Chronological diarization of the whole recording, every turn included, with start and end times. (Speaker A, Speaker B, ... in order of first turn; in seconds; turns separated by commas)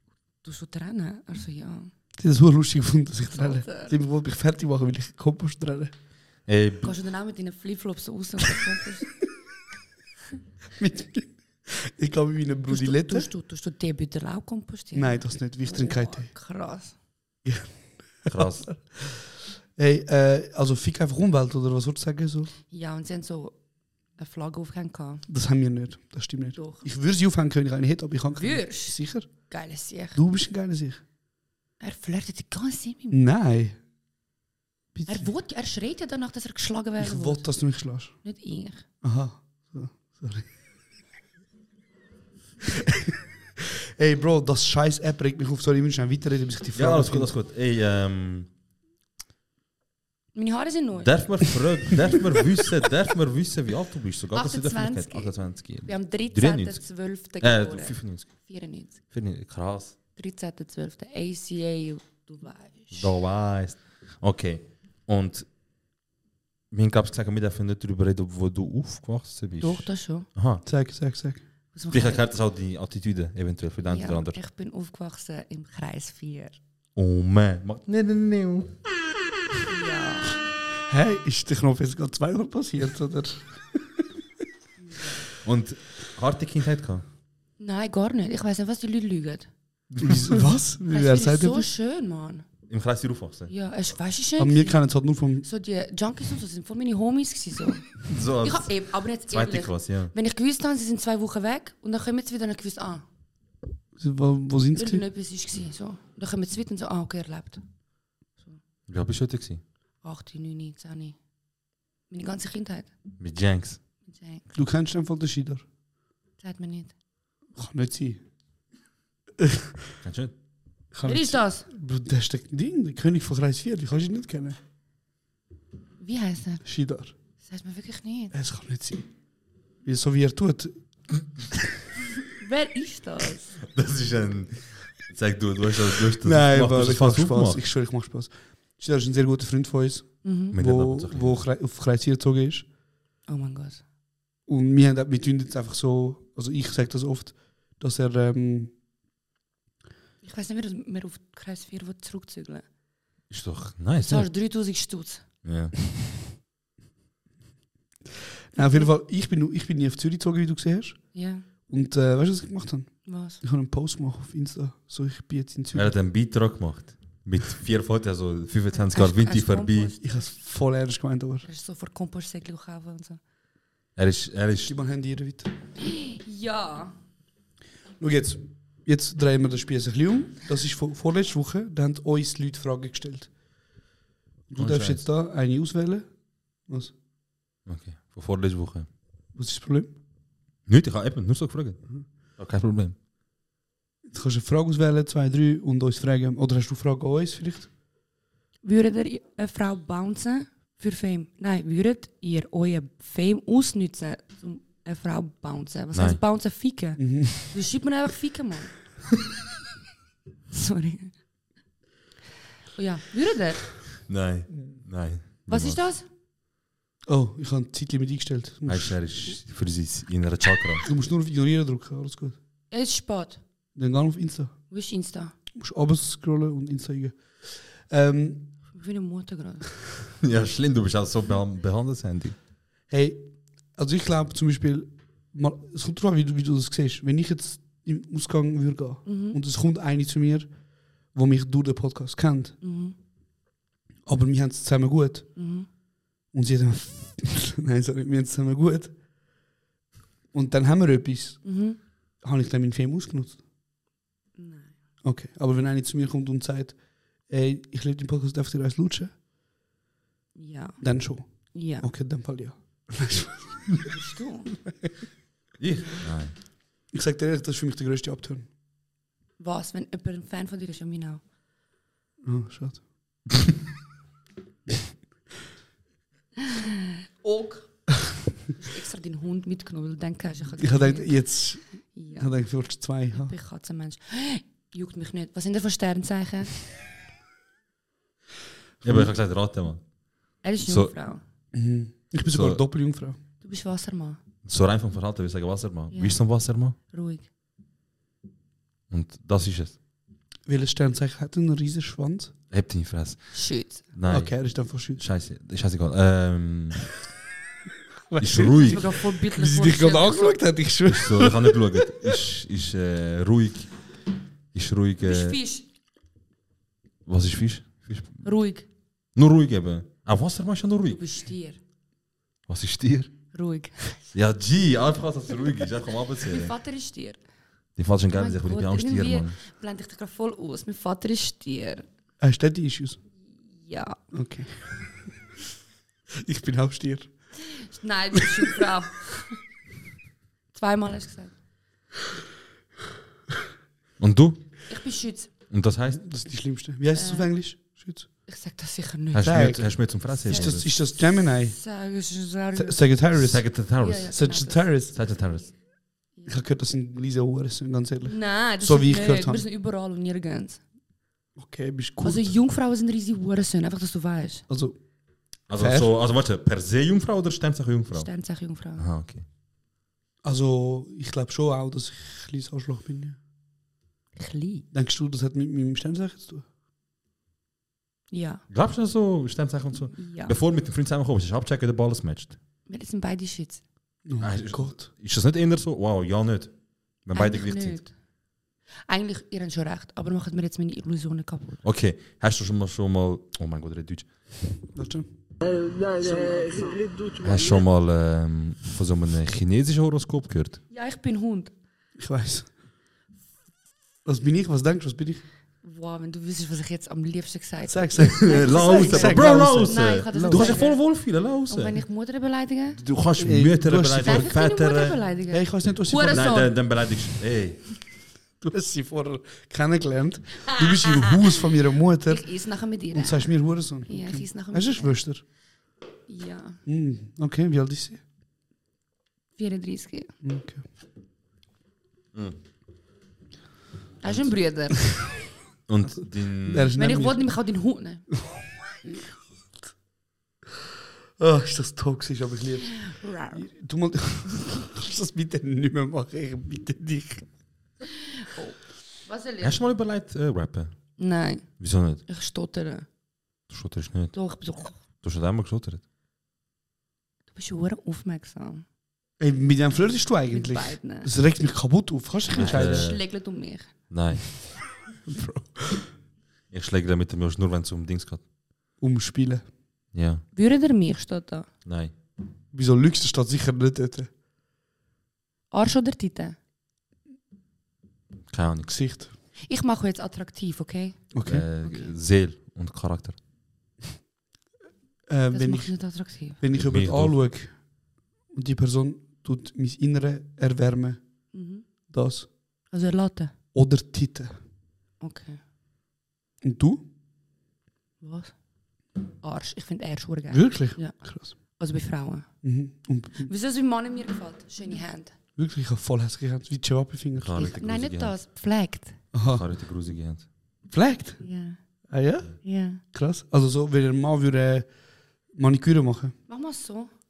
Speaker A: 0.4-1.9, Speaker B: 2.2-5.9, Speaker A: 3.3-3.9, Speaker C: 6.5-6.9, Speaker A: 6.8-9.1, Speaker B: 10.8-13.3, Speaker A: 12.7-16.9, Speaker B: 14.9-16.3, Speaker B: 17.4-19.2, Speaker C: 18.3-18.7, Speaker B: 19.8-22.5, Speaker A: 22.7-23.6, Speaker A: 24.2-25.2, Speaker B: 25.3-29.3, Speaker A: 26.6-26.8, Speaker A: 28.4-30.2, Speaker B: 30.1-31.0, Speaker A: 31.8-33.2, Speaker B: 33.1-33.8, Speaker B: 34.9-35.3, Speaker A: 35.1-37.5, Speaker B: 37.0-38.1, Speaker A: 38.2-38.8, Speaker B: 39.0-40.5, Speaker B: 42.7-47.3, Speaker C: 46.7-48.5, Speaker A: 50.3-51.1, Speaker C: 51.0-56.8, Speaker A: 54.3-59.0, Speaker C: 57.4-58.3, Speaker C: 59.1-59.9, Speaker A: 60.1-63.1, Speaker C: 62.9-65.5, Speaker C: 66.7-70.6, Speaker A: 69.6-70.3, Speaker B: 70.6-71.4, Speaker A: 71.7-72.2, Speaker C: 71.9-74.4, Speaker A: 73.8-76.6, Speaker C: 77.0-78.7, Speaker A: 79.7-80.4, Speaker B: 80.9-84.1, Speaker A: 84.8-85.2, Speaker C: 85.4-87.0, Speaker A: 87.6-89.5, Speaker C: 89.9-90.3, Speaker B: 90.0-91.7, Speaker A: 90.9-92.4, Speaker C: 92.7-93.5, Speaker A: 93.5-94.8, Speaker B: 94.4-95.5, Speaker A: 95.4-97.9, Speaker C: 98.0-100.1, Speaker A: 98.4-103.0, Speaker B: 104.0-105.0, Speaker A: 104.8-107.6, Speaker C: 108.9-109.6, Speaker A: 110.0-111.2, Speaker A: 112.1-112.9, Speaker C: 113.2-113.8, Speaker A: 114.0-114.6, Speaker B: 114.5-115.6, Speaker A: 116.4-116.9, Speaker B: 117.5-118.2, Speaker B: 119.4-119.8, Speaker C: 120.0-120.3, Speaker B: 120.9-124.6, Speaker A: 121.0-121.7, Speaker A: 126.0-126.6, Speaker B: 126.6-127.1, Speaker A: 127.4-128.3, Speaker B: 128.3-129.1, Speaker B: 129.8-130.7, Speaker A: 132.3-133.6, Speaker C: 133.7-137.6, Speaker B: 136.2-142.6, Speaker A: 140.2-140.5, Speaker C: 140.5-141.4, Speaker A: 143.3-143.8, Speaker B: 144.5-148.7, Speaker A: 150.2-152.6, Speaker C: 153.3-154.3, Speaker A: 154.0-155.2, Speaker C: 155.4-155.8, Speaker B: 158.5-161.0, Speaker A: 158.6-158.9, Speaker A: 161.1-161.4, Speaker B: 161.7-165.9, Speaker A: 163.1-163.4, Speaker C: 165.7-169.9, Speaker A: 168.9-170.3, Speaker B: 170.0-171.5, Speaker A: 171.4-173.2, Speaker C: 173.9-174.7, Speaker B: 174.7-175.5, Speaker A: 175.8-176.9, Speaker B: 178.0-183.3, Speaker B: 184.5-186.1, Speaker C: 184.6-185.0, Speaker B: 186.7-186.9, Speaker C: 187.7-188.9, Speaker B: 189.3-189.9, Speaker C: 190.7-191.8, Speaker C: 192.4-192.9, Speaker B: 194.1-197.7, Speaker A: 198.6-208.7, Speaker C: 205.9-206.2, Speaker B: 207.0-207.5, Speaker A: 210.5-211.1, Speaker A: 212.7-213.7, Speaker C: 214.1-215.8, Speaker A: 215.5-216.0, Speaker B: 217.1-219.0, Speaker C: 218.7-220.8, Speaker B: 220.8-222.3, Speaker A: 222.7-223.4, Speaker B: 223.8-224.5, Speaker A: 224.7-225.3, Speaker B: 225.5-228.5, Speaker A: 228.7-229.7, Speaker C: 230.2-232.3, Speaker B: 232.9-240.5, Speaker A: 239.0-239.4, Speaker B: 241.1-242.5, Speaker A: 242.6-242.9, Speaker B: 244.1-245.3, Speaker A: 245.3-245.7, Speaker B: 246.3-248.9, Speaker B: 250.3-251.5, Speaker A: 251.4-251.8, Speaker B: 252.2-253.4, Speaker A: 254.4-254.7, Speaker B: 255.0-259.1, Speaker A: 260.4-260.8, Speaker B: 260.8-263.9, Speaker A: 261.5-261.9, Speaker A: 263.8-264.5, Speaker C: 265.6-266.3, Speaker A: 265.8-266.0, Speaker B: 266.9-268.5, Speaker A: 269.4-271.2, Speaker B: 272.2-272.8, Speaker A: 276.4-277.8, Speaker A: 278.5-281.2, Speaker B: 280.6-283.3, Speaker A: 281.9-282.3, Speaker A: 283.1-286.6, Speaker C: 288.8-289.8, Speaker A: 290.4-291.2, Speaker C: 290.6-290.9, Speaker B: 291.5-293.2, Speaker C: 292.3-292.6, Speaker A: 293.4-294.2, Speaker C: 294.4-296.8, Speaker A: 295.9-296.2, Speaker A: 296.9-297.2, Speaker C: 298.9-299.7, Speaker B: 300.5-302.3, Speaker C: 302.5-306.9, Speaker A: 303.3-303.8, Speaker B: 304.1-305.0, Speaker B: 308.1-312.1, Speaker C: 308.2-308.9, Speaker A: 308.6-310.4, Speaker C: 310.9-313.7, Speaker C: 314.5-315.4, Speaker A: 315.0-315.6, Speaker C: 317.1-318.2, Speaker A: 318.2-318.6, Speaker C: 319.1-321.0, Speaker A: 320.9-321.6, Speaker C: 322.5-323.1, Speaker A: 323.3-324.0, Speaker C: 324.1-326.5, Speaker A: 326.2-327.2, Speaker C: 327.8-329.4, Speaker A: 328.1-331.8, Speaker B: 332.2-333.0, Speaker A: 333.4-334.0, Speaker B: 334.1-334.7, Speaker B: 336.1-337.1, Speaker A: 337.5-339.4, Speaker A: 340.5-341.3, Speaker C: 344.0-344.4, Speaker A: 344.7-345.3, Speaker C: 345.5-346.0, Speaker B: 345.9-348.1, Speaker A: 346.9-347.3, Speaker A: 348.2-349.5, Speaker C: 349.1-350.6, Speaker B: 349.2-351.6, Speaker A: 350.3-350.6, Speaker A: 351.1-352.9, Speaker B: 352.5-353.5, Speaker C: 353.2-354.2, Speaker A: 353.8-354.7, Speaker B: 354.1-354.9, Speaker C: 354.9-355.5, Speaker B: 356.3-359.4, Speaker A: 358.0-360.6, Speaker B: 361.4-362.3, Speaker A: 362.0-364.4, Speaker B: 364.5-364.8, Speaker C: 365.5-368.1, Speaker B: 365.5-365.9, Speaker A: 367.9-368.9, Speaker C: 368.8-369.2, Speaker B: 370.2-373.2, Speaker A: 374.1-374.6, Speaker B: 374.7-376.4, Speaker A: 378.1-378.4, Speaker C: 378.5-382.4, Speaker A: 379.9-380.4, Speaker A: 382.7-383.6, Speaker B: 384.1-384.9, Speaker C: 384.2-386.5, Speaker C: 387.0-387.8, Speaker A: 387.1-387.9, Speaker A: 388.9-391.6, Speaker C: 391.6-394.1, Speaker B: 394.7-395.1, Speaker C: 397.2-400.6, Speaker A: 400.7-401.5, Speaker B: 402.0-402.5, Speaker B: 404.0-405.2, Speaker A: 405.6-410.8, Speaker B: 407.6-410.6, Speaker C: 408.2-411.8, Speaker A: 411.5-412.8, Speaker C: 412.8-415.0, Speaker B: 413.2-414.3, Speaker A: 414.0-416.5, Speaker B: 415.3-416.4, Speaker C: 416.1-417.6, Speaker B: 418.4-422.3, Speaker A: 422.1-423.3, Speaker B: 422.9-425.2, Speaker A: 423.9-425.0, Speaker A: 426.1-426.6, Speaker B: 426.6-428.0, Speaker A: 429.4-430.1, Speaker B: 430.2-430.6, Speaker A: 434.0-434.8, Speaker C: 435.7-436.8, Speaker B: 436.4-437.2, Speaker A: 436.7-438.1, Speaker B: 438.3-439.0, Speaker B: 441.2-442.8, Speaker A: 442.7-443.4, Speaker B: 443.3-447.2, Speaker A: 448.1-449.6, Speaker C: 449.4-450.7, Speaker A: 451.0-451.5, Speaker C: 451.6-452.0, Speaker A: 452.1-452.9, Speaker C: 453.5-454.1, Speaker A: 454.1-454.8, Speaker C: 455.0-455.8, Speaker A: 457.3-458.6, Speaker B: 459.2-462.9, Speaker A: 460.3-461.1, Speaker C: 462.3-463.0, Speaker A: 462.3-463.7, Speaker C: 463.9-464.3, Speaker B: 465.1-465.9, Speaker C: 466.5-468.2, Speaker B: 468.8-469.5, Speaker C: 469.9-470.2, Speaker A: 470.3-471.5, Speaker C: 471.6-471.9, Speaker B: 472.5-474.1, Speaker A: 475.5-476.4, Speaker C: 478.3-478.8, Speaker B: 478.7-479.1, Speaker A: 479.4-481.1, Speaker B: 481.1-481.4, Speaker C: 481.2-483.1, Speaker B: 485.1-485.7, Speaker A: 485.3-486.4, Speaker B: 486.4-487.6, Speaker C: 486.5-487.1, Speaker B: 488.3-491.0, Speaker A: 491.3-491.6, Speaker B: 491.9-492.3, Speaker A: 492.7-493.3, Speaker B: 493.5-494.4, Speaker A: 495.0-495.4, Speaker B: 496.4-496.8, Speaker A: 498.0-498.3, Speaker A: 499.2-500.9, Speaker B: 500.3-501.3, Speaker A: 501.5-502.3, Speaker B: 502.4-503.3, Speaker A: 503.2-505.1, Speaker B: 505.4-507.4, Speaker C: 507.2-508.1, Speaker A: 507.4-509.0, Speaker B: 509.1-509.4, Speaker C: 509.3-510.2, Speaker B: 510.7-511.2, Speaker A: 511.2-511.6, Speaker B: 511.9-514.7, Speaker A: 512.4-512.8, Speaker B: 515.3-516.1, Speaker A: 516.3-516.9